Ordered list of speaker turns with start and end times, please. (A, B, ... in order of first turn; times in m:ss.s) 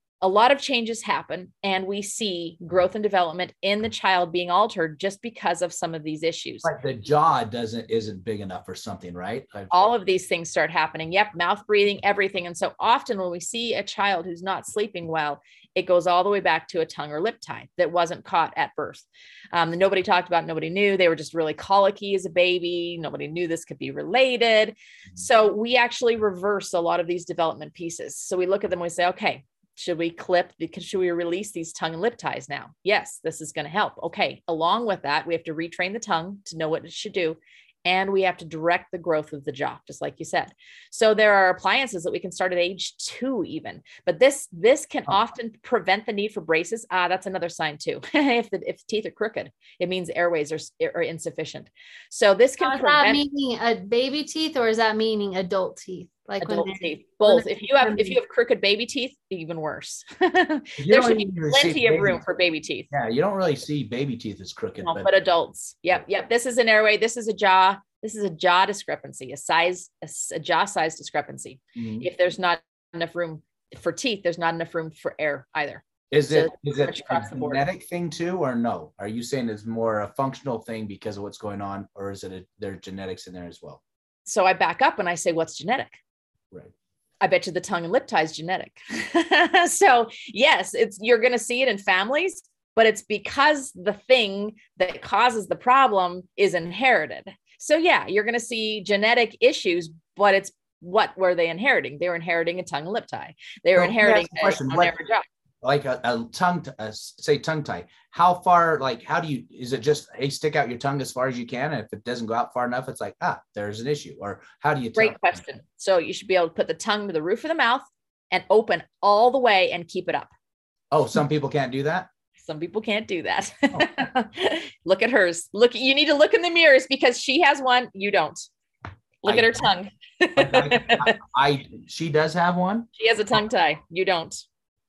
0:00.2-0:06.7 A
0:06.6-0:09.9 B
0:09.7-0:53.2 A
0:52.6-0:58.2 C
0:56.4-1:02.9 A
1:00.8-1:02.2 B
1:02.9-1:05.1 B
1:04.8-1:17.6 A
1:11.8-1:12.1 B
1:16.1-1:23.8 B
1:24.3-1:26.0 A
1:27.2-1:45.2 A
1:43.7-1:45.0 B
1:45.6-1:55.4 B
1:55.0-2:00.3 A
2:00.9-2:02.1 B
2:02.4-2:08.5 A
2:09.2-2:11.1 A
2:09.2-2:09.6 B
2:10.4-2:12.9 B
2:13.0-2:14.4 A